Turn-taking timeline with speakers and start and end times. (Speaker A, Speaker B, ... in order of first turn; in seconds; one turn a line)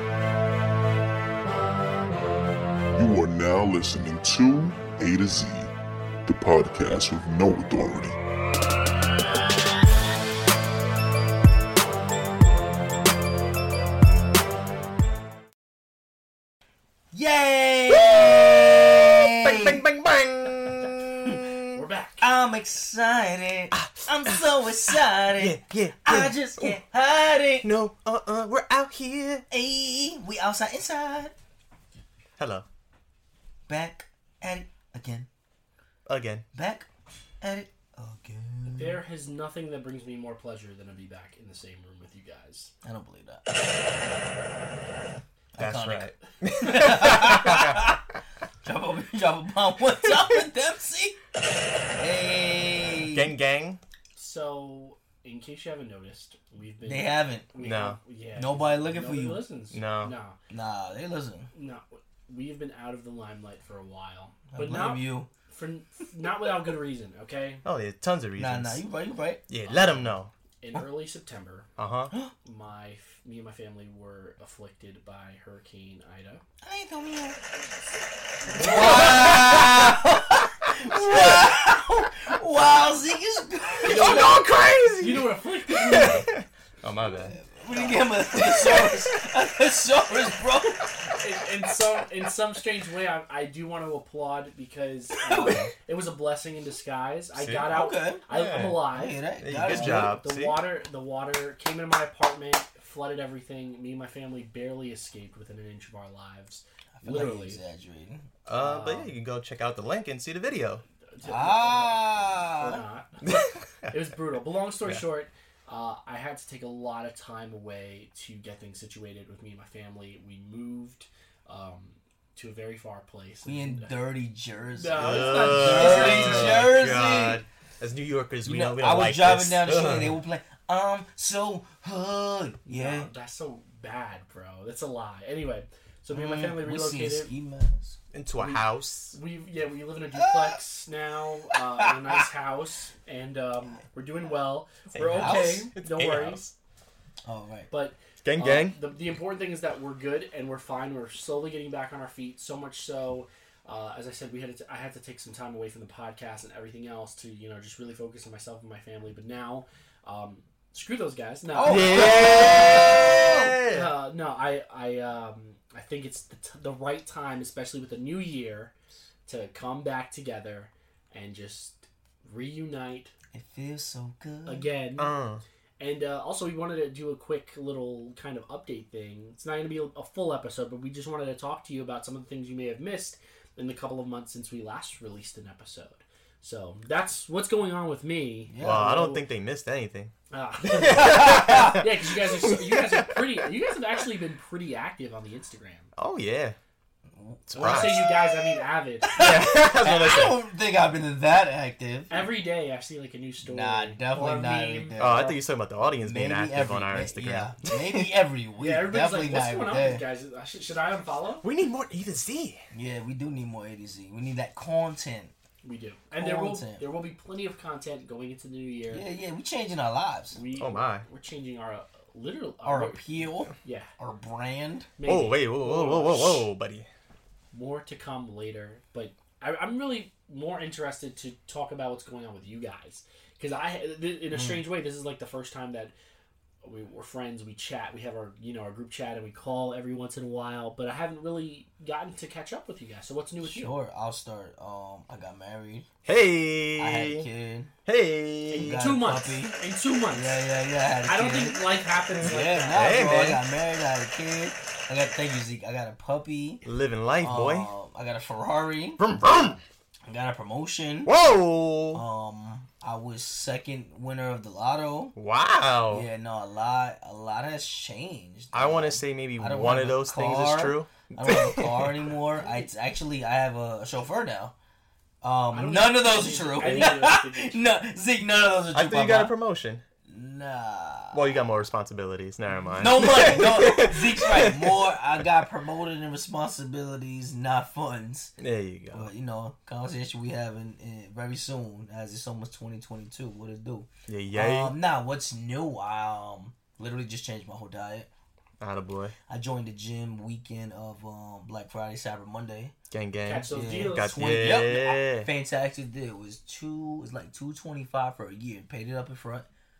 Speaker A: 2.9-5.7
Speaker A: 6.2-8.2
Speaker B: 17.1-19.8
Speaker C: 17.9-21.8
Speaker D: 21.7-22.3
Speaker B: 22.2-27.7
Speaker C: 23.8-26.8
Speaker C: 27.6-29.4
Speaker B: 29.5-31.3
Speaker C: 32.4-32.6
Speaker B: 33.7-35.3
Speaker C: 36.0-36.4
Speaker B: 36.5-36.9
Speaker B: 37.4-39.0
Speaker D: 38.7-42.7
Speaker B: 42.8-43.4
Speaker B: 45.5-48.0
Speaker C: 45.6-47.8
Speaker B: 48.6-51.2
Speaker B: 52.0-53.3
Speaker C: 53.0-53.8
Speaker D: 54.1-60.4
Speaker B: 56.9-57.5
Speaker C: 57.6-58.0
Speaker B: 58.3-59.4
Speaker C: 59.7-60.1
Speaker B: 60.5-61.5
Speaker D: 61.5-67.6
Speaker B: 64.5-65.3
Speaker C: 67.6-68.8
Speaker B: 68.4-70.0
Speaker C: 69.5-70.3
Speaker D: 69.8-71.7
Speaker C: 71.8-72.1
Speaker D: 72.4-76.4
Speaker B: 76.6-77.6
Speaker B: 78.4-84.4
Speaker C: 78.5-80.0
Speaker C: 80.8-81.4
Speaker C: 83.8-87.4
Speaker D: 83.8-84.4
Speaker D: 85.0-86.3
Speaker B: 87.1-91.1
Speaker D: 87.7-88.1
Speaker C: 88.3-89.0
Speaker D: 91.2-107.6
Speaker B: 95.1-95.7
Speaker C: 95.4-95.7
Speaker C: 97.3-97.7
Speaker B: 97.7-98.2
Speaker C: 98.3-100.7
Speaker B: 98.9-100.2
Speaker B: 107.0-108.2
Speaker C: 108.5-110.8
Speaker D: 108.5-109.1
Speaker D: 111.1-113.2
Speaker B: 111.2-112.8
Speaker C: 113.2-114.0
Speaker D: 113.9-124.0
Speaker B: 123.4-127.4
Speaker D: 124.7-126.8
Speaker C: 124.9-130.2
Speaker B: 128.4-133.1
Speaker D: 132.7-137.3
Speaker B: 136.1-138.0
Speaker C: 138.1-139.2
Speaker D: 138.4-146.4
Speaker B: 140.1-140.6
Speaker B: 141.5-142.2
Speaker C: 144.9-146.5
Speaker B: 145.1-145.7
Speaker B: 147.2-147.7
Speaker D: 147.7-168.7
Speaker C: 148.2-148.8
Speaker B: 161.5-163.6
Speaker C: 161.6-163.9
Speaker D: 169.2-173.1
Speaker B: 173.3-174.7
Speaker D: 174.4-175.2
Speaker C: 174.9-175.4
Speaker D: 175.8-188.6
Speaker B: 188.5-189.2
Speaker C: 188.6-190.1
Speaker D: 190.3-195.9
Speaker C: 190.6-193.5
Speaker B: 190.8-191.9
Speaker C: 195.9-196.6
Speaker B: 197.1-202.3
Speaker C: 197.5-198.1
Speaker D: 197.5-199.3
Speaker C: 199.1-200.4
Speaker D: 202.1-205.3
Speaker B: 203.4-205.4
Speaker C: 205.0-208.1
Speaker B: 206.0-210.0
Speaker D: 208.6-211.4
Speaker C: 211.4-212.6
Speaker B: 212.7-215.3
Speaker D: 215.6-219.1
Speaker B: 216.1-216.9
Speaker B: 218.9-220.4
Speaker D: 220.3-223.9
Speaker C: 220.6-221.1
Speaker B: 222.6-224.9
Speaker D: 225.0-226.5
Speaker C: 225.0-226.9
Speaker D: 227.5-235.9
Speaker B: 234.3-234.8
Speaker D: 236.6-243.7
Speaker B: 243.4-245.9
Speaker C: 246.0-247.2
Speaker B: 246.8-247.7
Speaker C: 247.8-248.9
Speaker D: 248.5-252.8
Speaker B: 248.6-256.6
Speaker C: 252.1-253.4
Speaker C: 256.6-257.7
Speaker B: 257.2-259.0
Speaker C: 259.0-259.6
Speaker B: 260.1-261.1
Speaker C: 261.0-262.0
Speaker B: 261.9-265.1
Speaker C: 265.1-266.1
Speaker B: 265.9-274.5
Speaker C: 268.5-272.1
Speaker D: 272.4-272.7
Speaker B: 275.2-279.4
Speaker D: 275.5-277.6
Speaker C: 276.6-276.9
Speaker C: 278.7-279.8
Speaker B: 280.1-281.4
Speaker C: 281.1-284.9
Speaker D: 282.5-282.9
Speaker B: 282.8-288.3
Speaker C: 288.4-289.1
Speaker B: 288.9-298.1
Speaker C: 294.1-294.8
Speaker C: 298.6-299.1
Speaker B: 299.3-302.7
Speaker C: 302.9-305.3
Speaker D: 303.2-304.2
Speaker B: 303.5-309.4